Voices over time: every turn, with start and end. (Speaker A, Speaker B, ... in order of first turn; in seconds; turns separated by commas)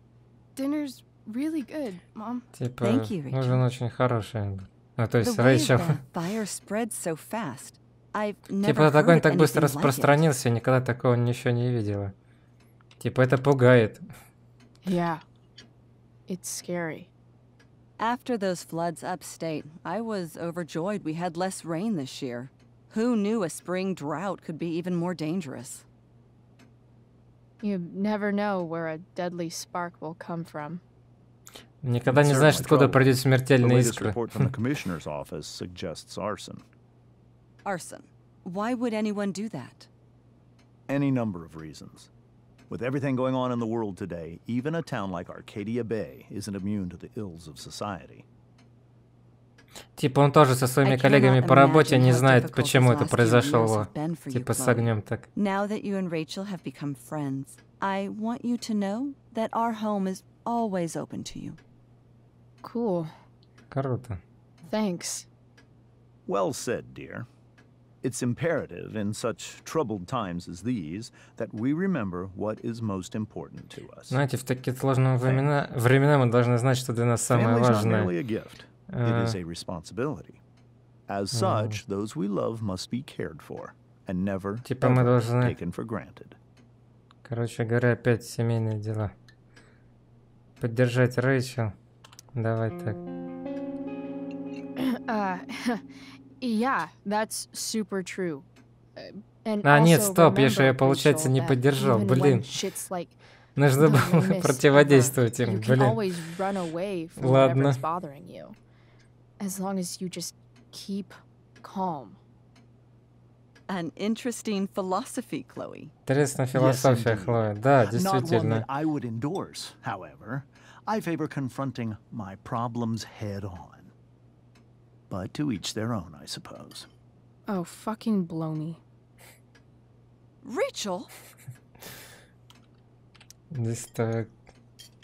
Speaker A: 0.6-2.5, Speaker B: 2.5-6.0, Speaker C: 2.8-3.6, Speaker C: 5.2-10.2, Speaker B: 8.6-12.1, Speaker B: 13.0-14.0, Speaker A: 14.8-15.2, Speaker A: 16.3-17.1, Speaker C: 18.0-25.9, Speaker A: 27.6-30.8, Speaker B: 31.8-34.5, Speaker D: 32.1-36.6, Speaker C: 37.6-39.9, Speaker D: 40.9-42.1, Speaker D: 42.7-48.3, Speaker B: 50.0-55.3, Speaker C: 50.8-61.6, Speaker A: 62.6-63.1, Speaker B: 63.7-64.2, Speaker A: 64.7-65.3, Speaker D: 66.3-67.3, Speaker D: 68.0-74.2, Speaker B: 74.1-78.1, Speaker D: 77.3-80.4, Speaker B: 78.9-79.4, Speaker D: 81.1-86.4, Speaker B: 81.3-81.8, Speaker B: 84.7-85.6, Speaker B: 87.2-89.1, Speaker B: 90.6-91.7, Speaker B: 92.3-93.0, Speaker A: 94.8-95.8, Speaker A: 96.4-103.2, Speaker B: 99.6-102.5, Speaker B: 103.6-106.0, Speaker A: 103.8-108.6, Speaker B: 107.2-107.8, Speaker A: 109.4-112.2, Speaker C: 113.7-115.9, Speaker B: 116.1-118.7, Speaker D: 116.5-123.9, Speaker D: 125.1-126.9, Speaker A: 127.5-128.8, Speaker C: 130.4-131.1, Speaker B: 133.5-134.3